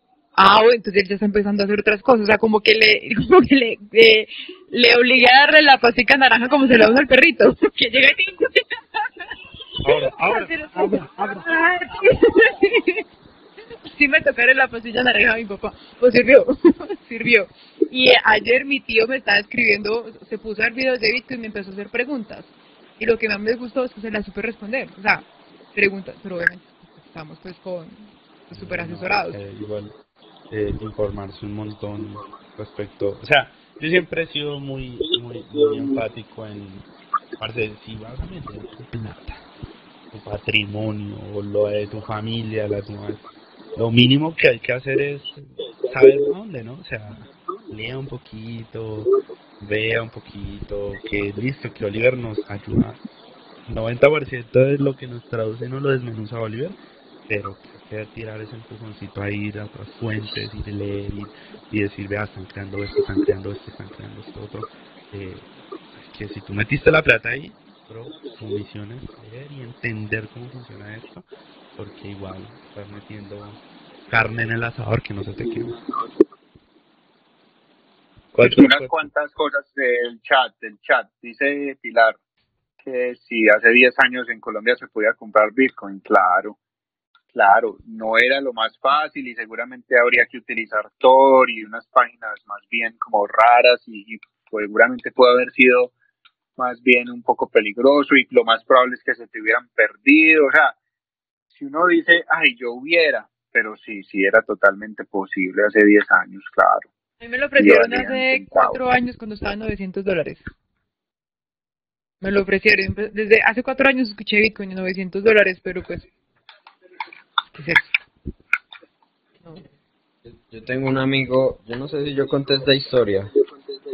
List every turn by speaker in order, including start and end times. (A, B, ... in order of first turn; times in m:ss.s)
0:00.3-0:08.6 A
0:09.8-0:11.5 B
0:10.0-0:13.0 A
0:13.9-0:29.4 A
0:28.5-0:29.9 B
0:30.5-0:36.8 B
0:37.4-0:39.4 B
0:40.1-0:53.0 B
0:53.6-1:15.8 B
1:18.3-1:19.1 B
1:18.4-1:22.2 C
1:22.8-1:26.6 C
1:27.3-1:35.9 C
1:36.6-1:40.8 C
1:41.5-1:46.9 C
1:47.2-1:50.4 A
1:47.6-1:48.8 C
1:52.2-1:56.1 A
1:57.5-1:57.9 A
2:00.3-2:03.3 D